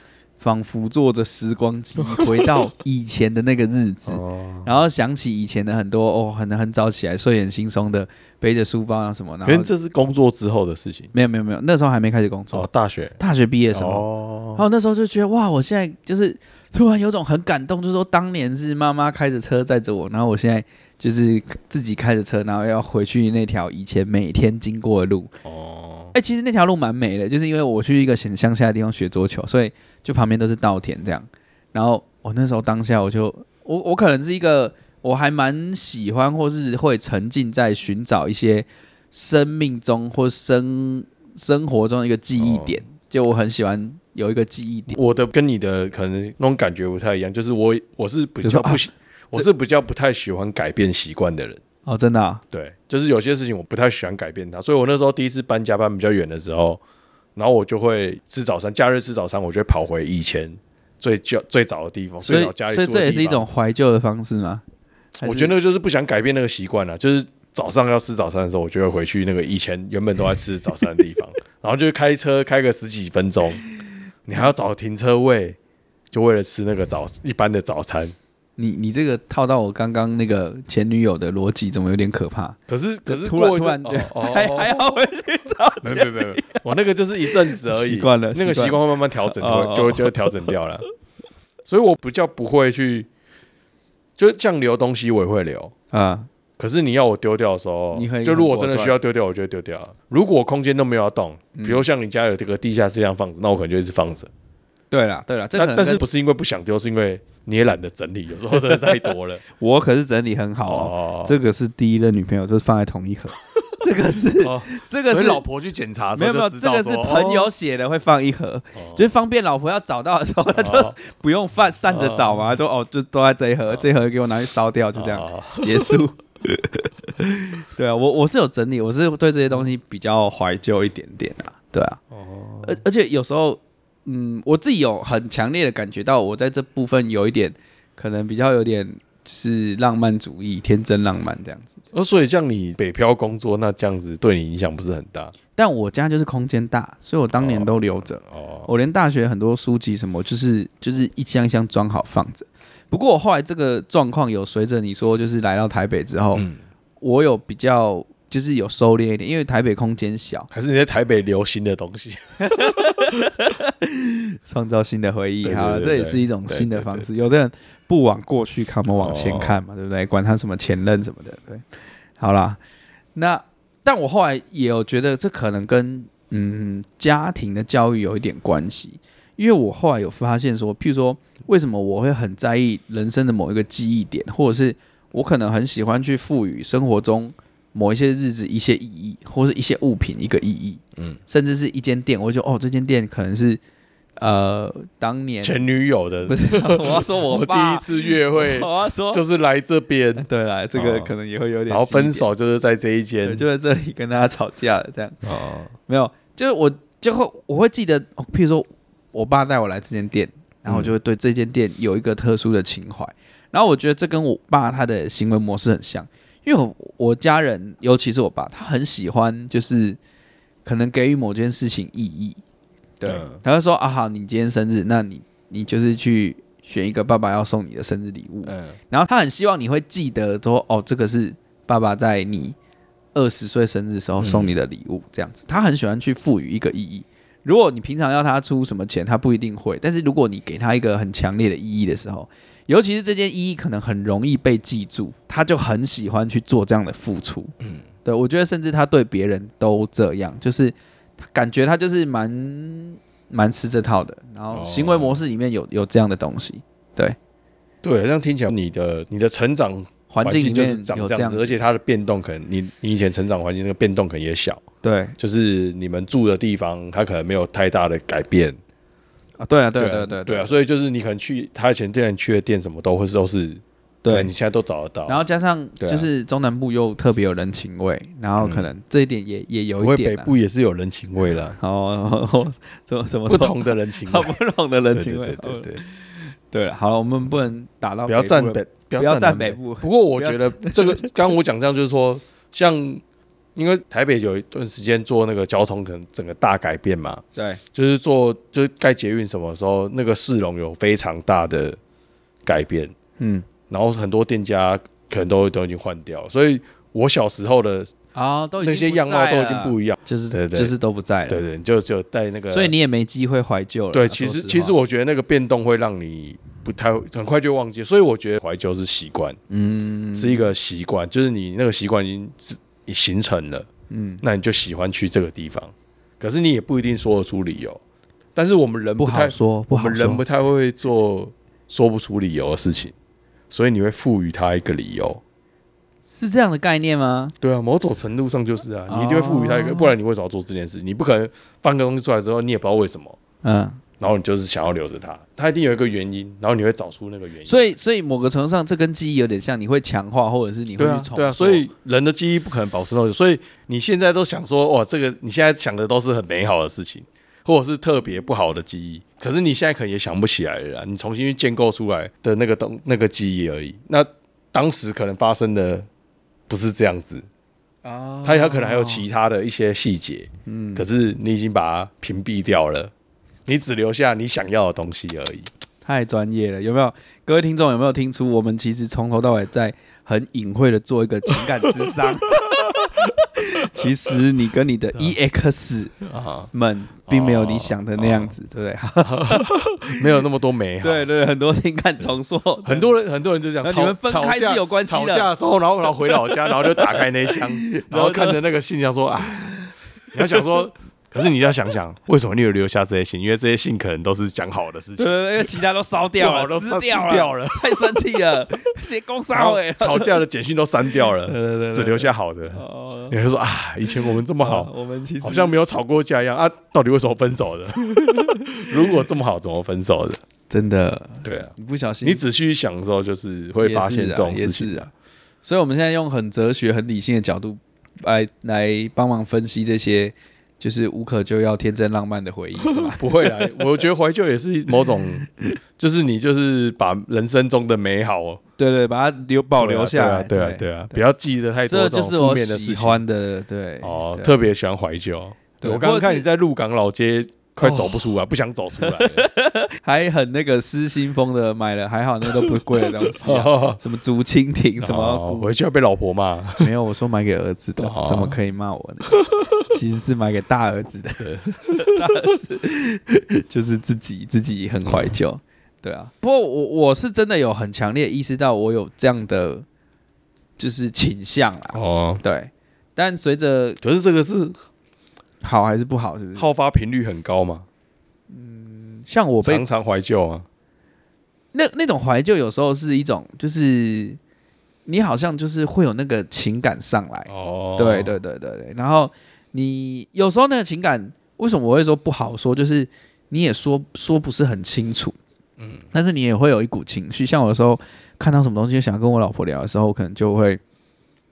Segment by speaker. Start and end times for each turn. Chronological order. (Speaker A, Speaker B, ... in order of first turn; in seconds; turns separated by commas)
Speaker A: 0.4-9.7, Speaker B: 4.1-4.7, Speaker B: 9.4-11.1, Speaker A: 11.1-12.7, Speaker B: 12.5-13.2, Speaker A: 13.2-14.0, Speaker B: 13.7-14.6, Speaker A: 14.6-25.3, Speaker B: 25.4-26.1, Speaker A: 26.1-45.0, Speaker B: 42.4-42.8, Speaker B: 44.9-51.6, Speaker A: 48.4-48.8, Speaker A: 51.9-52.4, Speaker B: 52.5-56.8, Speaker B: 57.4-63.5, Speaker A: 62.2-64.6, Speaker A: 65.2-65.5, Speaker B: 65.2-73.6, Speaker B: 74.2-75.6, Speaker B: 76.1-78.1, Speaker A: 78.6-86.6, Speaker B: 82.7-84.8, Speaker B: 85.8-90.8, Speaker A: 87.2-90.5, Speaker B: 91.7-93.1, Speaker B: 94.2-95.7, Speaker A: 95.9-96.3, Speaker B: 96.6-104.3, Speaker A: 97.9-98.9, Speaker A: 101.5-101.8, Speaker A: 104.9-106.0, Speaker B: 105.5-109.4, Speaker A: 109.5-115.4, Speaker B: 110.7-111.3, Speaker B: 114.3-117.5, Speaker A: 116.1-132.0, Speaker B: 118.8-119.0, Speaker B: 120.5-121.0, Speaker B: 121.9-122.5, Speaker B: 125.0-126.0, Speaker B: 132.1-132.8, Speaker A: 132.6-141.7, Speaker B: 141.9-145.3, Speaker A: 145.5-156.4, Speaker B: 147.4-148.7, Speaker A: 157.0-160.5, Speaker B: 160.5-162.9, Speaker A: 162.4-171.6, Speaker B: 165.4-167.1, Speaker B: 169.0-169.6, Speaker A: 172.2-172.6, Speaker A: 173.1-193.6, Speaker A: 194.2-195.6, Speaker B: 195.4-201.1, Speaker A: 196.2-199.2, Speaker A: 200.2-202.2, Speaker B: 201.7-203.4, Speaker A: 203.2-205.2, Speaker B: 205.2-205.7, Speaker A: 205.9-220.0, Speaker B: 210.7-210.9, Speaker A: 220.6-222.4, Speaker A: 223.0-232.6, Speaker B: 223.1-223.4, Speaker B: 228.4-228.8, Speaker A: 233.1-247.5, Speaker B: 234.2-234.6, Speaker B: 247.6-247.8, Speaker A: 248.0-257.1, Speaker B: 254.5-255.2, Speaker B: 257.8-264.6, Speaker A: 260.1-261.6, Speaker A: 264.8-265.1, Speaker B: 265.2-268.6, Speaker A: 269.4-270.6, Speaker B: 269.8-275.2, Speaker A: 274.0-274.3, Speaker A: 275.1-280.3, Speaker B: 275.8-276.1, Speaker B: 278.4-278.7, Speaker B: 279.8-281.6, Speaker A: 281.6-291.1, Speaker B: 283.3-284.3, Speaker B: 284.9-285.8, Speaker B: 288.1-293.0, Speaker B: 293.5-301.8, Speaker A: 297.4-297.6, Speaker B: 302.4-302.9, Speaker A: 303.2-303.5, Speaker B: 303.7-307.9, Speaker A: 308.1-311.4, Speaker B: 308.6-310.7, Speaker B: 311.3-312.7, Speaker A: 312.5-314.7, Speaker B: 313.9-319.4, Speaker A: 319.5-320.5, Speaker B: 320.1-323.7, Speaker A: 323.9-324.2, Speaker B: 324.2-327.8, Speaker B: 328.3-332.9, Speaker A: 329.0-330.2, Speaker B: 333.5-335.2, Speaker A: 336.1-337.3, Speaker B: 337.4-343.2, Speaker A: 338.9-339.9, Speaker A: 343.4-343.8, Speaker B: 344.0-347.7, Speaker A: 347.4-351.7, Speaker B: 350.8-365.9, Speaker B: 366.5-367.3, Speaker A: 367.8-369.1, Speaker B: 368.2-372.9, Speaker A: 370.4-370.9, Speaker B: 373.4-375.5, Speaker A: 375.8-386.0, Speaker B: 381.4-383.0, Speaker B: 386.0-386.5, Speaker A: 386.5-390.0, Speaker B: 387.1-388.3, Speaker B: 389.0-391.1, Speaker A: 390.8-392.9, Speaker B: 392.6-399.5, Speaker A: 393.6-395.3, Speaker A: 395.9-398.4, Speaker A: 399.4-400.5, Speaker B: 400.1-405.1, Speaker A: 405.0-410.2, Speaker B: 406.2-408.0, Speaker B: 409.3-420.2, Speaker A: 411.2-413.1, Speaker A: 413.9-415.6, Speaker A: 417.9-419.0, Speaker A: 420.5-422.2, Speaker B: 421.2-421.5, Speaker B: 422.0-424.8, Speaker A: 423.6-424.9, Speaker A: 425.4-433.8, Speaker B: 432.7-435.2, Speaker A: 434.8-435.5, Speaker B: 435.8-438.4, Speaker A: 438.6-440.9, Speaker B: 439.6-443.0, Speaker A: 441.7-444.3, Speaker B: 443.8-449.2, Speaker A: 445.6-446.2, Speaker A: 447.6-448.1, Speaker A: 448.8-455.5, Speaker B: 452.3-453.8, Speaker B: 454.8-456.7, Speaker A: 456.6-469.6, Speaker B: 457.8-458.3, Speaker B: 459.3-459.6, Speaker B: 461.2-462.0, Speaker B: 464.9-465.2, Speaker A: 470.6-473.8, Speaker B: 471.7-472.2, Speaker B: 473.8-474.6, Speaker A: 475.4-476.5, Speaker B: 476.4-477.7, Speaker A: 478.3-479.6, Speaker B: 479.4-480.4, Speaker A: 481.5-484.2, Speaker A: 484.9-495.2, Speaker B: 487.3-488.1, Speaker B: 495.6-495.8, Speaker A: 495.9-500.6